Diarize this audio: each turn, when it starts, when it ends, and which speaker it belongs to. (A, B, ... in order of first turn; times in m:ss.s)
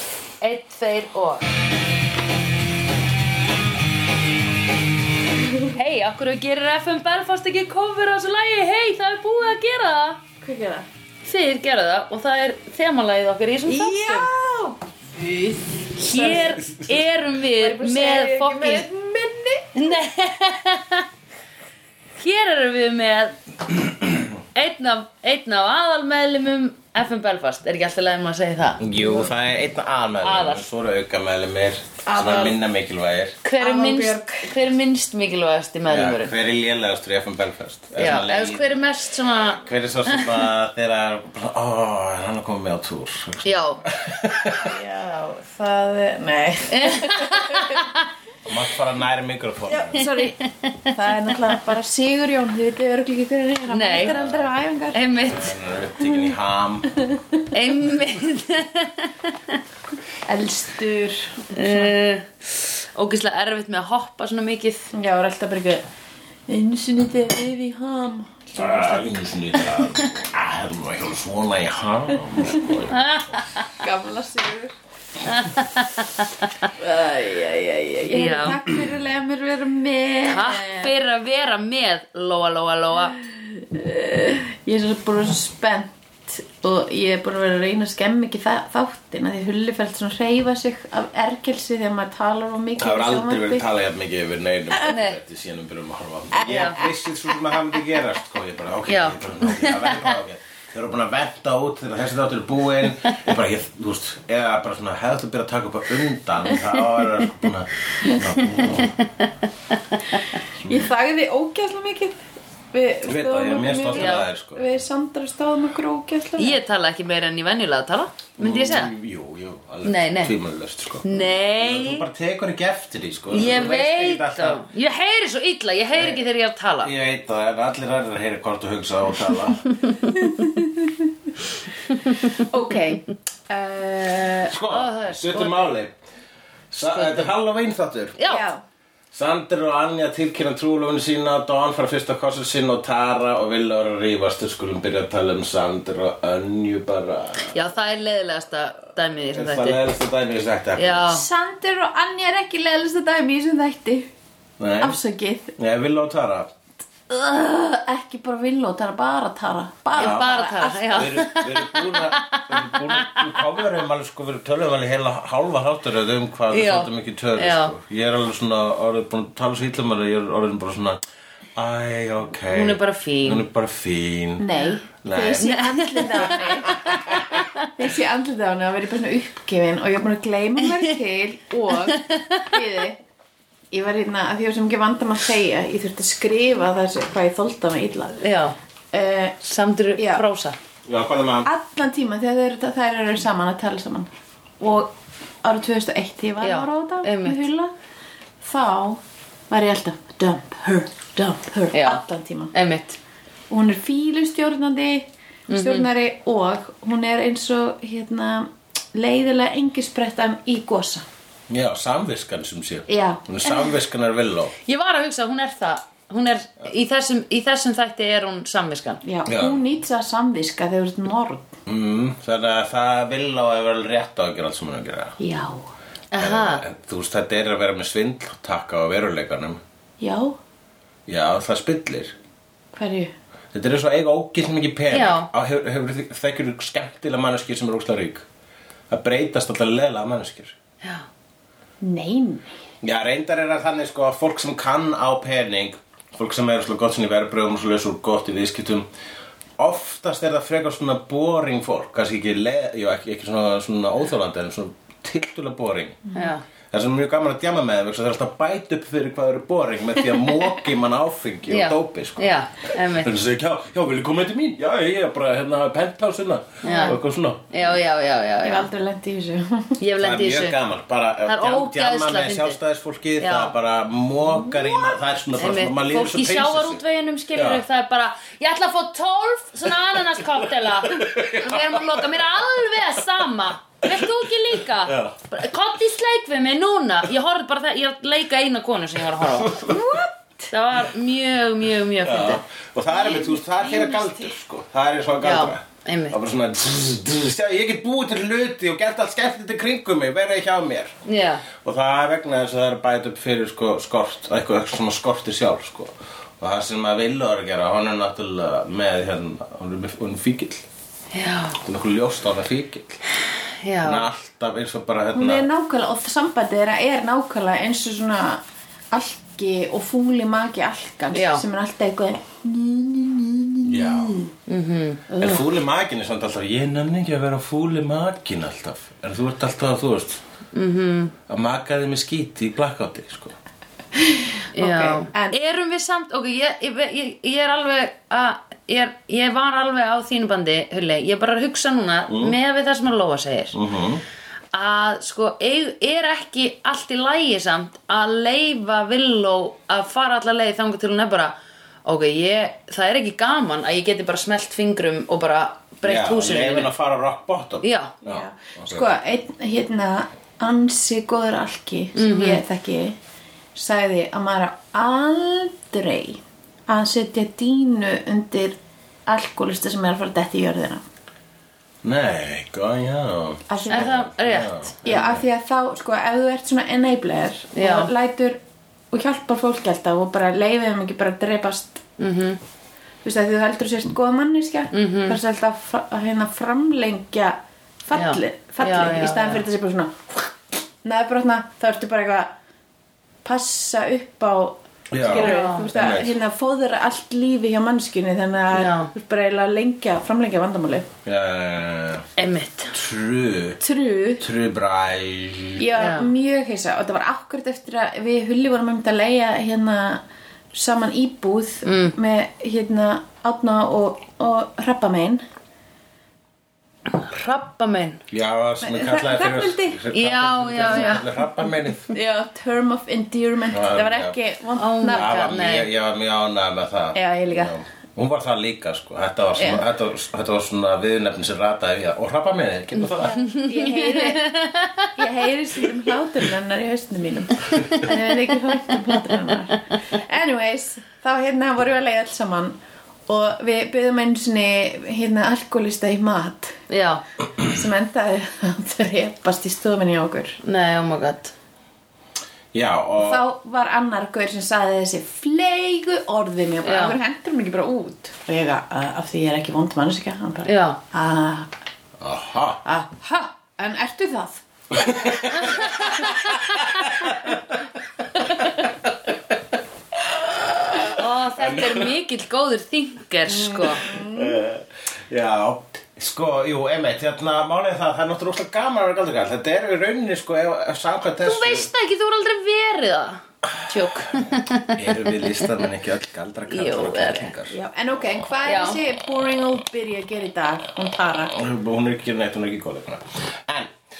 0:00.4-0:01.4 A
0:05.4-0:05.7 B
0:05.6-0:10.2 A
0:10.4-0:10.9 B
0:11.2-0:14.3 A
0:13.6-0:16.8 B
0:16.0-0:18.8 A
0:17.5-0:19.9 B
0:19.8-0:21.1 A
0:22.2-0:23.4 A
0:24.5-0:29.2 A
0:28.8-0:33.4 C
0:30.2-0:30.6 A
0:32.0-0:32.6 B
0:33.4-0:36.3 A
0:33.6-0:34.5 B
0:35.9-0:38.8 C
0:38.0-0:40.5 A
0:39.5-0:44.7 C
0:43.4-0:43.8 A
0:44.5-0:47.8 B
0:46.7-0:48.0 A
0:48.4-0:50.1 C
0:49.7-0:55.0 B
0:53.7-0:54.2 A
0:54.0-0:54.5 C
0:54.9-0:55.5 A
0:55.2-0:56.9 C
0:56.9-0:57.4 B
0:57.5-0:59.6 A
1:00.2-1:01.9 B
1:01.5-1:04.9 A
1:04.9-1:05.8 B
1:06.5-1:09.3 B
1:08.6-1:13.0 C
1:12.9-1:13.6 A
1:13.8-1:14.7 B
1:15.2-1:16.6 A
1:16.8-1:20.9 B
1:18.1-1:18.6 A
1:20.2-1:23.2 A
1:23.0-1:33.6 B
1:32.8-1:49.0 C
1:34.8-1:35.2 A
1:36.3-1:36.9 B
1:36.4-1:36.8 A
1:38.9-1:40.1 A
1:48.7-1:49.0 A
1:50.6-1:52.2 B
1:52.7-1:56.6 B
1:53.0-1:54.6 C
1:53.9-1:54.2 A
1:56.4-1:58.9 A
1:58.4-2:04.6 C
1:59.8-2:00.3 A
2:01.0-2:02.1 A
2:03.3-2:06.9 A
2:05.9-2:06.2 C
2:06.8-2:09.6 C
2:10.1-2:11.0 B
2:12.1-2:14.6 B
2:14.4-2:15.9 C
2:14.7-2:15.7 A
2:16.7-2:18.2 C
2:18.2-2:18.5 A
2:18.2-2:18.6 B
2:19.1-2:27.5 C
2:27.5-2:29.8 A
2:29.3-2:31.1 C
2:30.8-2:31.2 A
2:31.1-2:34.1 B
2:34.6-2:35.0 C
2:34.8-2:35.6 B
2:35.6-2:36.5 C
2:37.1-2:41.2 B
2:40.0-2:40.2 C
2:40.0-2:43.5 A
2:40.9-2:51.0 C
2:46.5-2:47.7 A
2:51.6-2:54.5 C
2:52.5-2:53.4 A
2:54.4-2:57.1 B
2:55.0-2:55.6 C
2:55.4-2:57.4 A
2:56.4-2:57.3 C
2:57.6-3:03.0 B
3:01.8-3:02.6 A
3:03.7-3:08.2 B
3:08.2-3:08.5 A
3:08.9-3:09.4 B
3:09.4-3:10.6 A
3:10.0-3:10.2 B
3:10.8-3:11.5 C
3:11.4-3:14.1 B
3:14.6-3:17.7 B
3:16.4-3:17.4 A
3:18.4-3:22.5 B
3:21.7-3:23.0 A
3:23.5-3:31.0 B
3:25.5-3:25.9 A
3:31.5-3:34.5 C
3:32.9-3:33.8 B
3:34.6-3:39.0 A
3:39.0-3:41.6 B
3:39.3-3:39.6 C
3:41.6-3:45.2 C
3:45.2-3:45.7 B
3:46.1-3:46.6 A
3:46.2-3:49.6 C
3:50.0-3:50.4 B
3:51.1-3:52.1 C
3:52.7-3:53.1 B
3:53.5-3:58.2 C
3:54.9-3:55.3 A
3:58.9-4:00.6 C
4:01.8-4:02.4 B
4:02.8-4:08.9 C
4:09.6-4:16.1 C
4:16.1-4:16.4 A
4:16.7-4:27.5 C
4:21.5-4:23.1 A
4:26.6-4:27.0 A
4:26.6-4:27.0 B
4:27.5-4:28.7 A
4:28.4-4:29.8 B
4:29.8-4:30.6 A
4:30.0-4:36.8 C
4:31.2-4:32.6 A
4:33.2-4:33.5 A
4:35.4-4:49.6 A
4:37.3-4:37.6 C
4:40.2-4:42.2 C
4:43.9-4:45.2 C
4:49.2-4:50.0 C
4:49.6-4:50.5 B
4:50.5-4:52.4 A
4:52.0-5:01.0 C
4:53.0-4:54.1 B
4:55.2-4:56.2 A
5:01.0-5:01.4 A
5:01.5-5:10.6 C
5:11.1-5:11.6 A
5:11.6-5:13.0 C
5:13.6-5:14.0 A
5:13.8-5:15.4 C
5:15.1-5:24.3 B
5:21.1-5:21.4 A
5:23.6-5:24.2 C
5:24.5-5:25.2 A
5:25.1-5:25.4 B
5:25.2-5:30.2 C
5:30.5-5:31.1 A
5:31.3-5:33.4 C
5:34.0-5:35.4 B
5:34.6-5:43.6 A
5:42.1-5:42.4 C
5:43.5-5:44.0 C
5:44.5-5:51.3 A
5:51.8-5:56.7 A
5:55.8-5:58.8 C
5:57.6-5:57.9 A
5:58.0-6:03.0 B
6:02.0-6:02.4 A
6:03.5-6:10.8 B
6:11.8-6:15.2 C
6:13.5-6:14.0 B
6:13.7-6:14.8 A
6:14.8-6:18.4 B
6:17.5-6:17.9 A
6:18.9-6:21.8 B
6:22.0-6:22.4 A
6:23.0-6:30.3 B
6:24.7-6:25.2 A
6:27.9-6:29.4 A
6:30.8-6:32.3 B
6:33.2-6:40.9 B
6:34.9-6:36.1 C
6:35.1-6:35.7 A
6:38.5-6:38.9 A
6:41.0-6:42.1 C
6:42.2-6:42.7 A
6:42.7-6:43.6 C
6:43.6-6:44.2 B
6:44.2-6:45.7 C
6:45.6-6:55.2 B
6:45.8-6:46.1 A
6:51.6-6:51.9 A
6:56.9-6:58.0 A
6:58.1-7:01.9 C
6:58.6-6:59.8 B
6:59.9-7:01.2 A
7:00.7-7:01.0 B
7:01.9-7:05.1 B
7:03.5-7:04.2 C
7:04.6-7:05.7 A
7:04.9-7:13.2 C
7:06.9-7:07.6 B
7:09.4-7:09.6 B
7:13.1-7:22.6 B
7:13.2-7:14.9 A
7:23.1-7:26.6 B
7:26.7-7:27.0 A
7:27.4-7:30.4 B
7:30.4-7:31.3 A
7:32.5-7:33.2 C
7:33.0-7:41.5 B
7:36.6-7:37.0 A
7:40.4-7:40.8 A
7:42.0-7:42.6 C
7:42.6-7:44.4 B
7:44.7-7:47.6 C
7:48.2-7:48.7 C
7:50.0-7:51.9 C
7:50.9-7:53.9 A
7:53.3-7:54.4 B
7:53.8-8:01.7 C
8:01.2-8:05.5 A
8:04.7-8:07.5 C
8:06.5-8:07.3 A
8:07.5-8:11.4 B
8:08.4-8:08.8 A
8:11.3-8:13.7 C